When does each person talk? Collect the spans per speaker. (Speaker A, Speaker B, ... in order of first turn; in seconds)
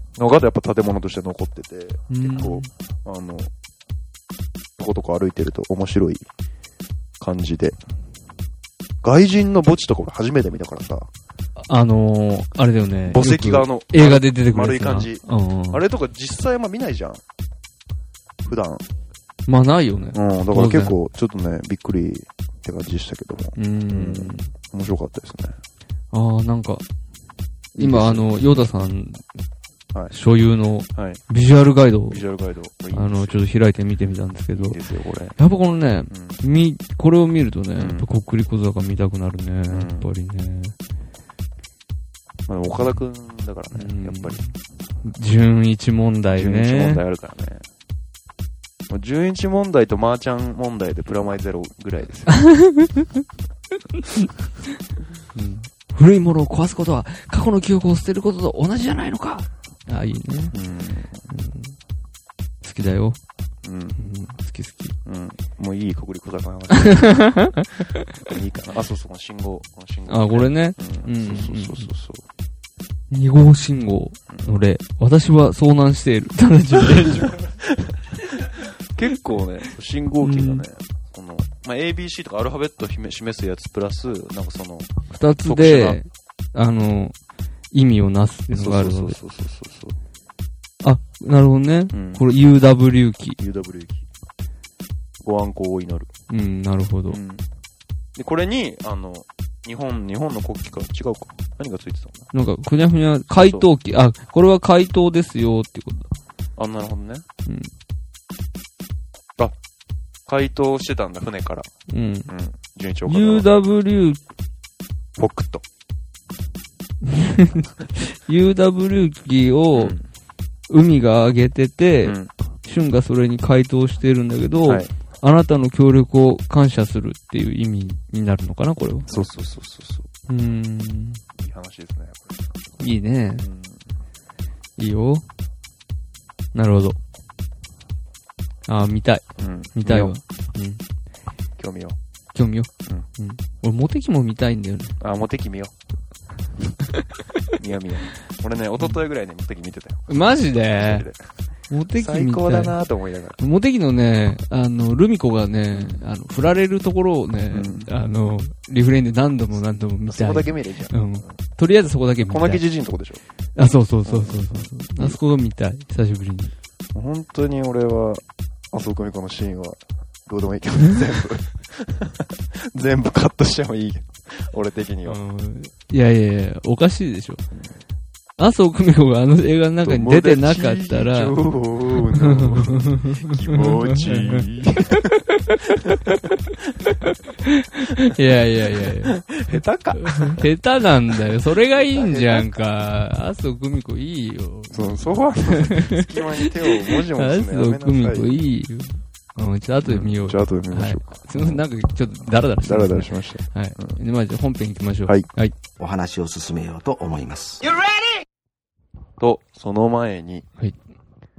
Speaker A: 0.2-3.5, 4.8-6.2, 7.2-7.8, 9.0-11.1, 13.1-17.2, 18.4-18.9, 20.1-25.6, 27.8-28.3, 30.9-31.2, 32.1-33.4, 34.5-35.4, 36.1-36.4, 37.8-38.1, 39.7-40.1, 42.5-44.4, 46.3-47.6, 48.9-52.4, 60.5-61.3, 63.6-64.0, 65.0-67.3, 68.2-72.2, 76.8-84.9, 85.5-86.0, 88.5-90.0, 91.9-92.2, 93.4-94.0, 95.2-96.1, 97.1-97.4, 98.2-102.3, 103.3-103.7, 106.6-107.2, 110.3-111.7, 112.3-113.5, 115.2-115.6, 119.7-120.0, 122.0-122.3, 124.7-124.9, 129.1-130.1, 131.4-132.5, 133.4-133.8, 139.4-140.2, 141.6-142.0, 145.0-145.7, 147.6-151.2, 151.9-153.4, 155.7-156.0, 157.5-157.9, 160.1-161.3, 162.3-163.2, 164.1-165.2, 166.9-175.2, 179.8-185.1, 188.8-190.5, 191.7-192.5, 194.7-198.4, 199.8-201.6, 202.6-203.9, 209.2-210.5
Speaker B: 2.1-2.7, 11.7-15.8, 19.5-20.9, 23.6-24.5, 26.1-26.8, 27.8-29.2, 30.1-32.2, 32.9-34.8, 35.4-40.8, 43.8-47.0, 52.3-53.1, 53.9-54.3, 55.4-60.5, 61.3-61.8, 62.6-63.2, 64.0-65.0, 66.7-67.9, 70.1-71.9, 73.1-77.4, 80.2-80.6, 85.1-87.1, 87.7-89.2, 90.8-93.4, 96.3-97.2, 102.3-106.1, 107.5-107.7, 111.9-112.3, 113.1-114.2, 117.0-120.0, 120.7-129.1, 130.3-131.2, 132.8-133.4, 134.8-135.2, 136.5-137.0, 138.7-140.8, 142.3-145.0, 150.1-151.1, 151.7-152.8, 153.4-162.6, 163.6-166.5, 175.1-177.4, 178.4-181.4, 182.1-189.3, 190.0-194.8, 195.5-205.5
Speaker C: 205.8-207.7